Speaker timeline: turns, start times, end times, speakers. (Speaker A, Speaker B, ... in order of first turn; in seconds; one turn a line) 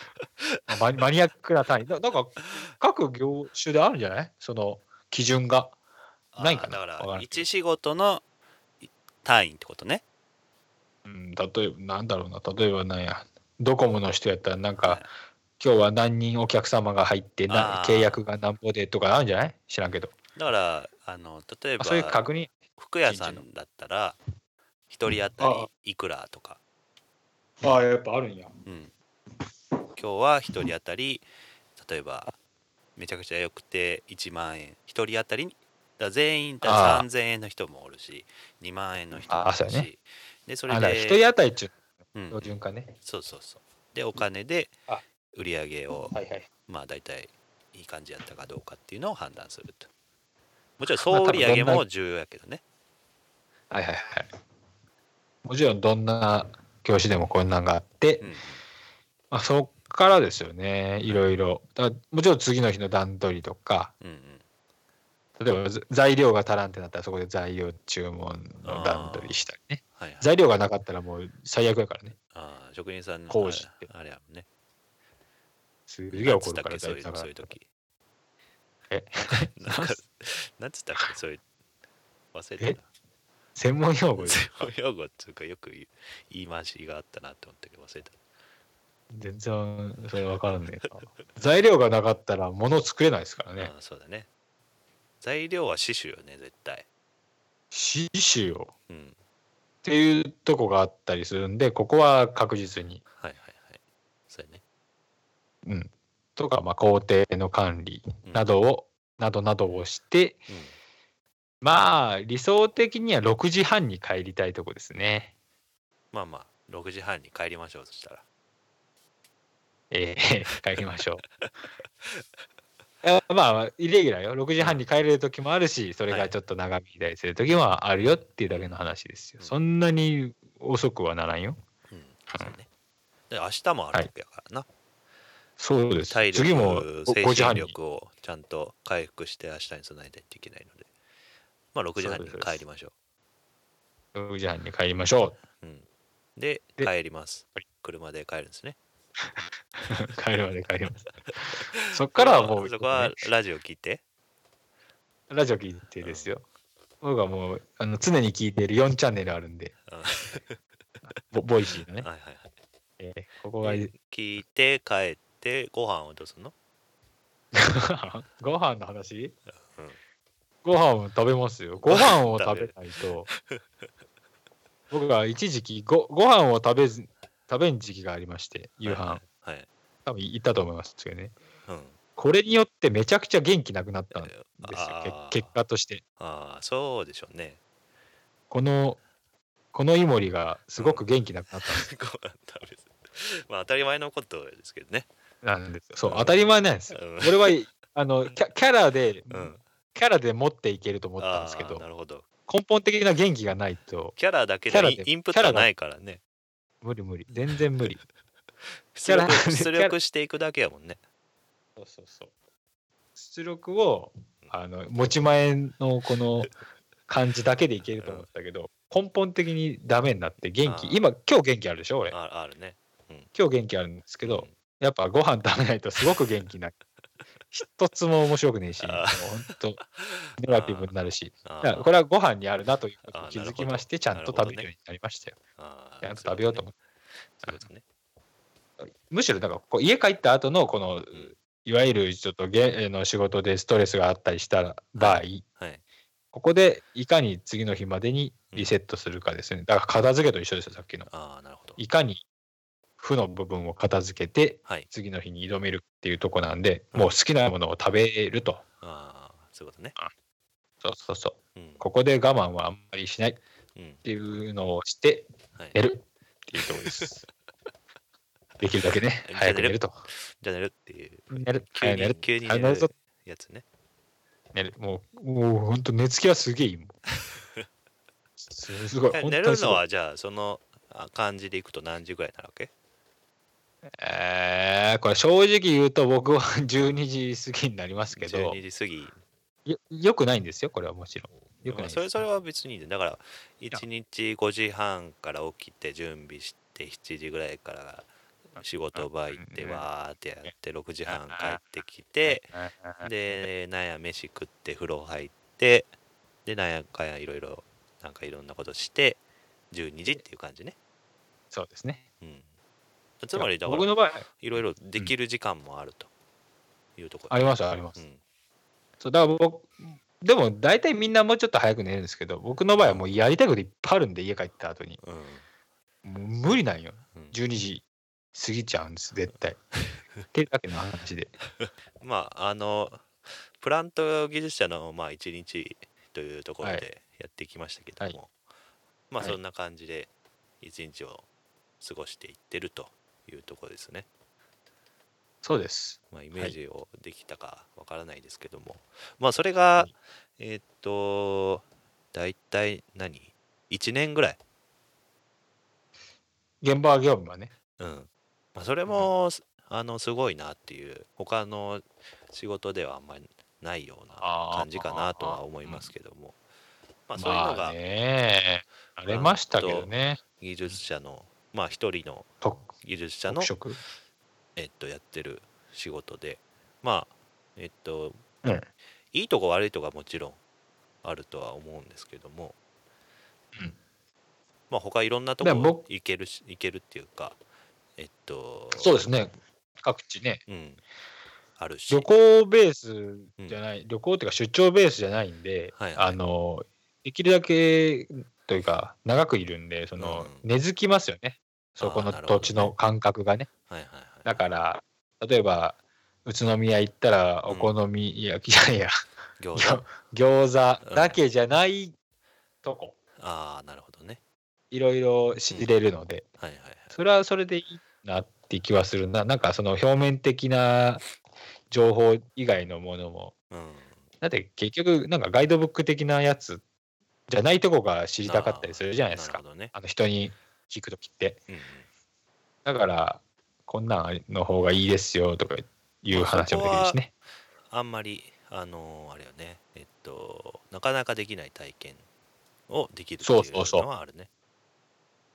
Speaker A: 0.7-5.8
Speaker B: 6.3-8.2
Speaker A: 6.4-7.5
Speaker B: 8.8-10.0
Speaker A: 11.1-15.1
Speaker B: 14.8-15.1
Speaker A: 15.6-20.1
Speaker B: 17.5-18.3
Speaker B: 20.4-24.2
Speaker A: 21.8-22.5
Speaker A: 23.1-23.4
Speaker B: 24.9-26.6
Speaker A: 25.4-25.7
Speaker A: 27.6-28.6
Speaker B: 28.6-28.9
Speaker B: 30.0-32.4
Speaker B: 33.0-41.2
Speaker A: 36.6-37.1
Speaker A: 39.2-39.9
Speaker A: 40.7-41.8
Speaker B: 42.1-44.7
Speaker A: 42.3-42.9
Speaker B: 45.3-49.9
Speaker A: 46.1-46.5
Speaker B: 50.8-52.6
Speaker A: 50.9-51.8
Speaker A: 53.7-54.3
Speaker A: 55.5-58.3
Speaker B: 58.2-58.6
Speaker A: 59.3-63.9
Speaker B: 64.0-64.4
Speaker A: 65.4-72.2
Speaker B: 68.6-70.3
Speaker B: 72.3-74.5
Speaker A: 73.3-73.9
Speaker A: 75.9-77.5
Speaker B: 76.1-77.7
Speaker A: 78.9-80.0
Speaker B: 79.2-81.4
Speaker B: 82.3-82.9
Speaker A: 83.6-84.7
Speaker B: 84.2-88.2
Speaker A: 89.1-93.7
Speaker B: 93.6-94.3
Speaker B: 95.2-96.8
Speaker A: 97.7-98.7
Speaker B: 98.9-99.2
Speaker A: 99.8-103.0
Speaker B: 103.2-104.6
Speaker A: 105.7-110.4
Speaker B: 108.2-108.5
Speaker B: 110.5-110.7
Speaker A: 111.6-115.3
Speaker B: 116.1-118.2
Speaker A: 119.9-121.2
Speaker B: 120.8-121.5
Speaker A: 123.0-131.6
Speaker B: 124.6-124.8
Speaker B: 126.1-126.3
Speaker B: 128.0-128.8
Speaker B: 131.9-132.7
Speaker B: 133.3-134.7
Speaker A: 135.6-137.7
Speaker B: 136.1-140.9
Speaker B: 141.7-142.9
Speaker A: 142.0-142.6
Speaker A: 144.2-145.4
Speaker B: 145.6-148.8
Speaker A: 149.4-153.2
Speaker B: 151.7-154.0
Speaker A: 155.3-156.4
Speaker B: 156.0-156.3
Speaker A: 157.0-159.8
Speaker B: 159.9-161.2
Speaker A: 161.3-162.1
Speaker B: 161.8-162.5
Speaker A: 163.0-163.9
Speaker B: 163.6-166.5
Speaker A: 167.5-169.4
Speaker B: 169.5-170.0
Speaker A: 170.6-173.3
Speaker B: 171.8-172.8
Speaker B: 173.3-173.7
Speaker A: 174.9-179.2
Speaker B: 178.8-179.7
Speaker A: 180.1-181.3
Speaker B: 181.7-182.0
Speaker A: 182.2-186.0
Speaker B: 184.1-185.5
Speaker B: 186.2-187.6
Speaker A: 188.5-189.0
Speaker A: 189.7-191.9
Speaker B: 190.8-195.1
Speaker A: 195.4-201.9
Speaker B: 196.0-197.6
Speaker B: 199.3-199.6
Speaker B: 201.2-202.2
Speaker A: 202.5-204.2
Speaker B: 204.2-206.2
Speaker A: 204.7-205.7
Speaker A: 206.8-208.0
Speaker B: 208.9-211.0
Speaker A: 209.1-210.0
Speaker A: 211.8-212.3
Speaker A: 213.2-216.5
Speaker A: 217.1-222.2
Speaker B: 218.0-218.3
Speaker B: 220.6-221.0
Speaker B: 222.1-223.3
Speaker A: 223.3-226.8
Speaker B: 224.2-224.5
Speaker A: 227.5-229.8
Speaker B: 228.8-230.9
Speaker A: 230.4-235.4
Speaker B: 231.4-231.9
Speaker B: 233.1-234.7
Speaker B: 235.6-236.7
Speaker A: 236.0-236.7
Speaker B: 237.4-237.8
Speaker A: 238.8-245.4
Speaker B: 245.0-245.8
Speaker A: 246.3-251.1
Speaker B: 251.1-251.8
Speaker A: 251.8-252.2
Speaker A: 253.0-258.6
Speaker B: 258.8-260.0
Speaker A: 260.8-263.4
Speaker B: 261.6-261.8
Speaker B: 263.8-264.0
Speaker A: 264.0-267.2
Speaker B: 266.6-267.2
Speaker A: 268.6-270.0
Speaker B: 269.2-273.6
Speaker A: 271.3-272.9
Speaker A: 274.5-277.0
Speaker B: 277.2-277.7
Speaker A: 278.4-279.8
Speaker B: 279.1-282.7
Speaker A: 284.0-288.6
Speaker B: 288.1-289.2
Speaker A: 289.7-292.2
Speaker B: 291.6-305.9
Speaker A: 298.6-299.9
Speaker A: 301.1-301.6
Speaker A: 302.2-303.5
Speaker B: 306.4-309.2
Speaker B: 309.7-310.8
Speaker A: 311.5-312.0
Speaker B: 312.2-312.5
Speaker B: 313.2-316.1
Speaker A: 313.3-314.3
Speaker B: 317.0-318.2
Speaker A: 317.3-318.0
Speaker A: 319.0-325.0
Speaker B: 322.8-323.1
Speaker B: 325.0-325.4
Speaker A: 326.0-329.6
Speaker B: 329.8-330.2
Speaker A: 330.3-331.3
Speaker B: 331.6-338.3
Speaker B: 339.1-341.3
Speaker B: 341.8-344.1
Speaker A: 345.4-346.6
Speaker B: 346.1-354.4
Speaker A: 356.6-357.5
Speaker B: 357.8-366.4
Speaker A: 364.2-365.9
Speaker B: 367.1-367.8
Speaker A: 367.2-370.8
Speaker B: 369.1-372.3
Speaker A: 372.4-372.7
Speaker B: 372.8-373.5
Speaker A: 373.3-373.8
Speaker B: 374.6-378.2
Speaker B: 379.1-380.4
Speaker B: 381.0-382.6
Speaker B: 384.7-387.4
Speaker A: 385.4-385.8
Speaker B: 388.0-389.0
Speaker A: 388.8-390.4
Speaker B: 390.5-390.8
Speaker B: 391.6-392.1
Speaker A: 391.9-403.5
Speaker B: 395.8-396.2
Speaker B: 400.0-400.5
Speaker B: 401.8-402.8
Speaker B: 403.7-404.5
Speaker A: 404.2-408.9
Speaker B: 409.4-409.9
Speaker A: 409.6-411.9
Speaker B: 410.8-411.2
Speaker A: 412.6-412.9
Speaker B: 413.2-414.2
Speaker A: 414.7-416.3
Speaker B: 416.4-417.0
Speaker A: 416.9-421.0
Speaker A: 421.7-423.3
Speaker B: 423.5-424.1
Speaker A: 424.2-426.6
Speaker A: 427.3-431.4
Speaker B: 428.2-429.7
Speaker B: 431.5-431.9
Speaker A: 432.6-437.1
Speaker B: 436.1-437.0
Speaker B: 437.7-442.1
Speaker B: 442.7-444.3
Speaker A: 443.2-443.9